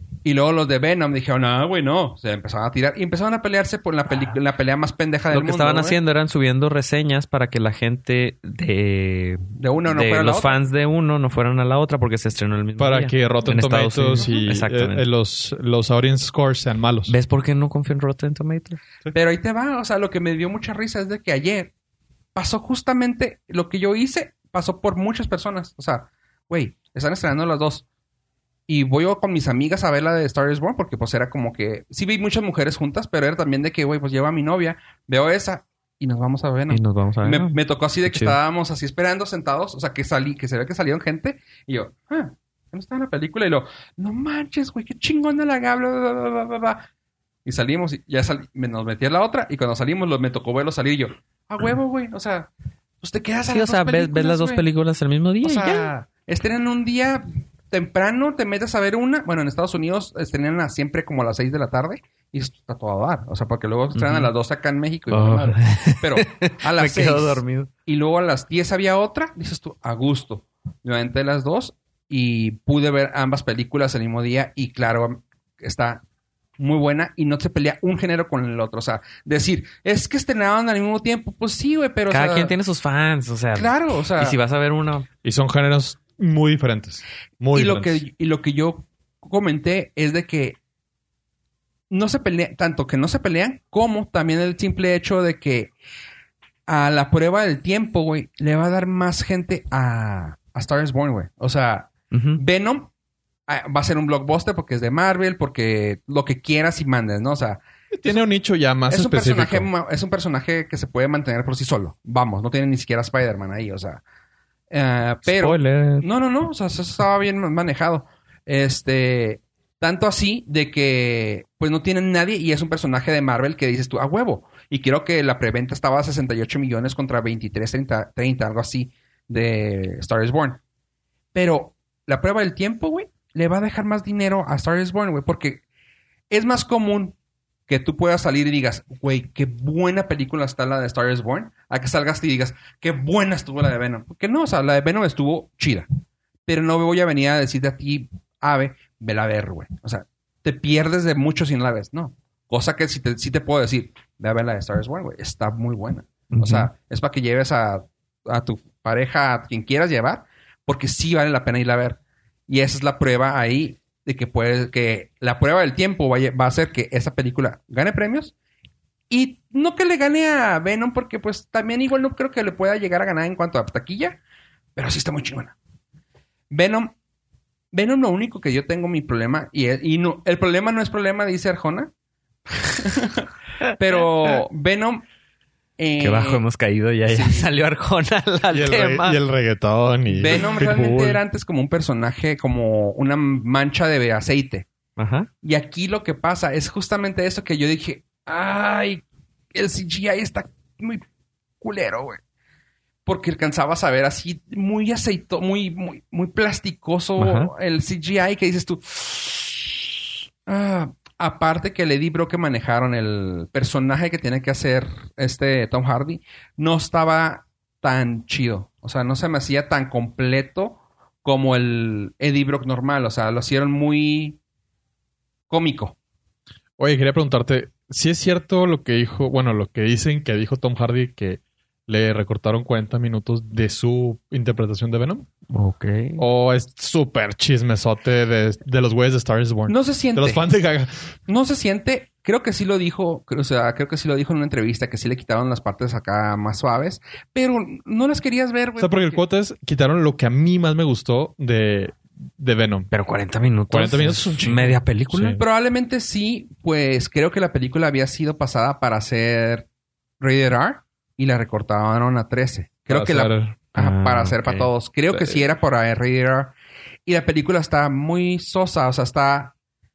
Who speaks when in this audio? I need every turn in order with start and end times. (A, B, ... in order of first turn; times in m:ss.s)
0:00.2-0:06.0 A
0:05.3-0:15.0 B
0:09.6-0:10.6 A
0:12.8-0:17.1 C
0:14.1-0:14.4 A
0:17.1-0:18.8 B
0:19.1-0:21.7 A
0:22.4-0:27.8 A
0:28.7-0:46.8 A
0:36.7-0:38.4 B
0:47.4-0:52.5 A
0:53.0-0:54.6 A
0:53.5-0:55.9 B
0:55.4-1:16.0 A
1:03.9-1:04.3 B
1:05.1-1:07.7 B
1:16.6-1:22.5 A
1:22.1-1:25.1 B
1:23.6-1:24.4 A
1:25.2-1:28.0 C
1:27.5-1:30.6 A
1:31.9-1:35.7 A
1:36.7-1:42.9 A
1:42.1-1:42.4 B
1:43.5-1:48.2 A
1:47.9-1:49.7 C
1:48.9-1:54.0 A
1:54.7-2:10.6 A
1:55.3-1:56.1 B
2:11.3-2:15.6 A
2:16.3-2:17.2 A
2:17.7-2:25.9 A
2:26.5-2:48.3 A
2:36.3-2:36.7 B
2:49.1-2:54.2 A
2:54.8-2:55.6 A
2:56.5-2:56.9 A
2:57.7-3:01.9 A
3:02.8-3:05.0 A
3:05.8-3:06.4 A
3:06.0-3:09.2 B
3:07.1-3:07.5 A
3:08.5-3:11.2 C
3:10.1-3:14.7 A
3:15.0-3:15.3 B
3:15.4-3:21.0 A
3:21.6-3:22.2 A
3:23.1-3:29.9 A
3:27.2-3:27.5 B
3:30.5-3:44.4 A
3:45.5-3:46.0 A
3:46.8-3:55.3 C
3:55.5-3:56.2 B
3:56.2-4:00.9 C
3:59.7-4:00.4 A
4:01.3-4:09.2 A
4:08.8-4:12.9 C
4:12.9-4:15.4 B
4:13.7-4:15.4 C
4:15.4-4:19.7 A
4:20.2-4:26.5 A
4:22.9-4:23.6 C
4:23.8-4:25.4 B
4:27.1-4:29.5 A